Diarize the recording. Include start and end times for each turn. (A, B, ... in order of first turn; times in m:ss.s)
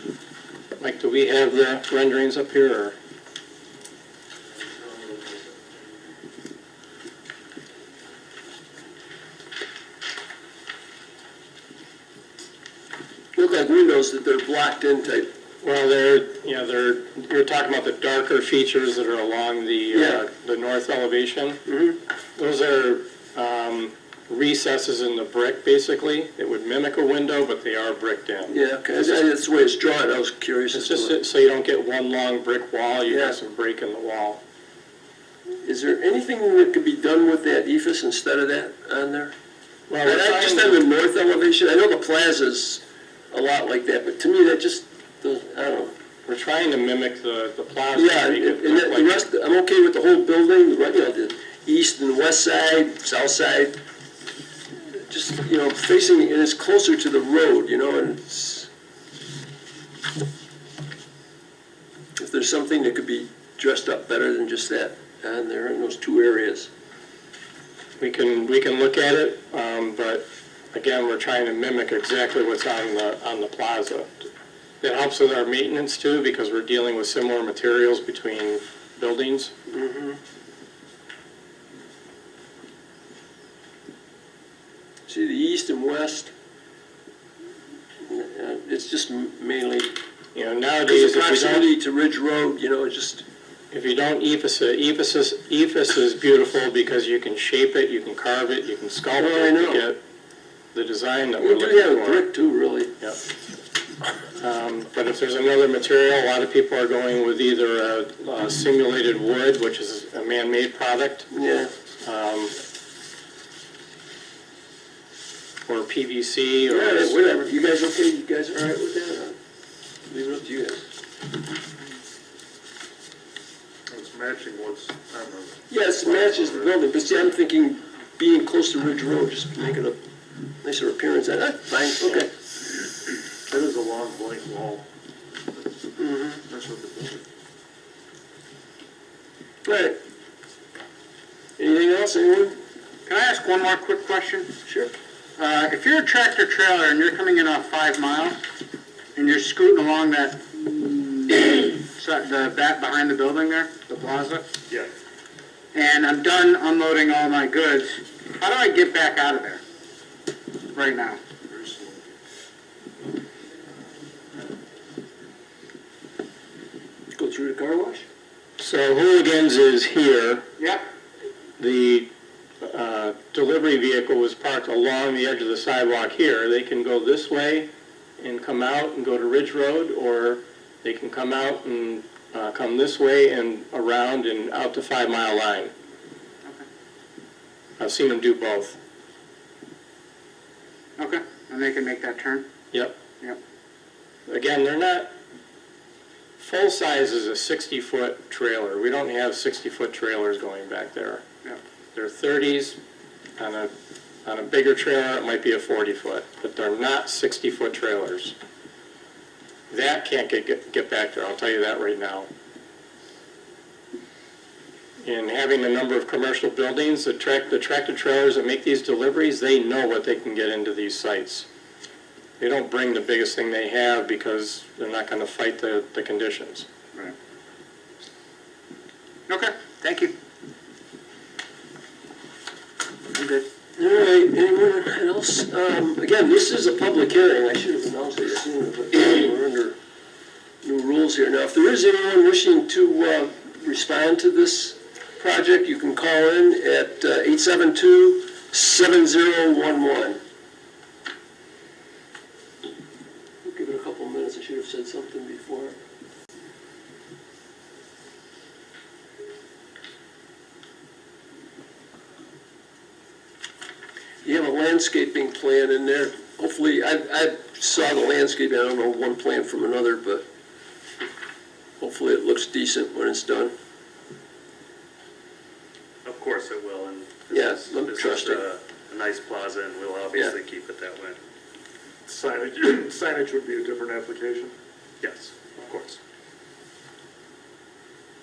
0:00.8-0:02.9 A
0:13.3-0:15.3 B
0:15.6-0:21.6 A
0:19.9-0:20.2 B
0:21.6-0:22.0 B
0:22.4-0:28.6 A
0:28.5-0:31.2 B
0:30.7-0:34.4 A
0:33.1-0:33.3 B
0:35.6-0:39.3 B
0:39.9-0:40.8 A
0:40.0-0:45.9 B
0:46.3-0:49.2 A
0:47.9-0:53.8 B
0:54.9-0:58.7 B
1:02.2-1:06.7 B
1:08.0-1:14.3 A
1:14.8-1:19.5 A
1:19.7-1:20.2 B
1:25.1-1:26.3 B
1:28.0-1:29.9 B
1:30.3-1:31.7 A
1:30.8-1:33.2 B
1:33.7-1:40.0 A
1:39.1-1:39.8 B
1:40.7-1:42.3 A
1:41.4-1:42.9 B
1:44.4-1:51.3 A
1:51.3-1:51.7 B
1:52.0-1:52.5 A
1:55.7-1:57.2 A
1:56.7-1:59.4 B
2:00.1-2:00.8 B
2:03.9-2:06.8 C
2:05.7-2:10.0 B
2:10.6-2:12.3 B
2:13.5-2:14.8 C
2:16.0-2:16.4 B
2:16.4-2:17.2 C
2:19.6-2:20.0 B
2:21.6-2:22.6 B
2:23.0-2:24.5 D
2:24.6-2:24.9 B
2:25.4-2:28.4 D
2:29.2-2:34.4 D
2:35.7-2:39.6 D
2:40.7-2:41.2 D
2:47.1-2:48.0 B
2:48.6-2:50.4 A
2:50.6-2:50.8 D
2:51.6-2:52.1 A
2:52.6-2:57.7 A
2:58.2-3:05.7 A
3:07.8-3:08.8 A
3:11.0-3:12.4 D
3:14.3-3:15.1 A
3:16.4-3:21.2 A
3:21.9-3:22.8 A
3:23.4-3:23.7 A
3:24.2-3:28.3 A
3:29.7-3:32.3 A
3:35.0-3:41.4 A
3:42.4-3:46.6 A
3:49.3-3:50.1 D
3:53.1-3:53.4 D
3:53.8-3:59.8 B
4:00.6-4:10.2 B
4:13.4-4:15.8 B
4:24.2-4:30.2 B
4:31.8-4:33.5 B
4:36.0-4:41.2 E
4:37.3-4:38.4 B
4:42.0-4:44.5 C
4:45.0-4:46.0 E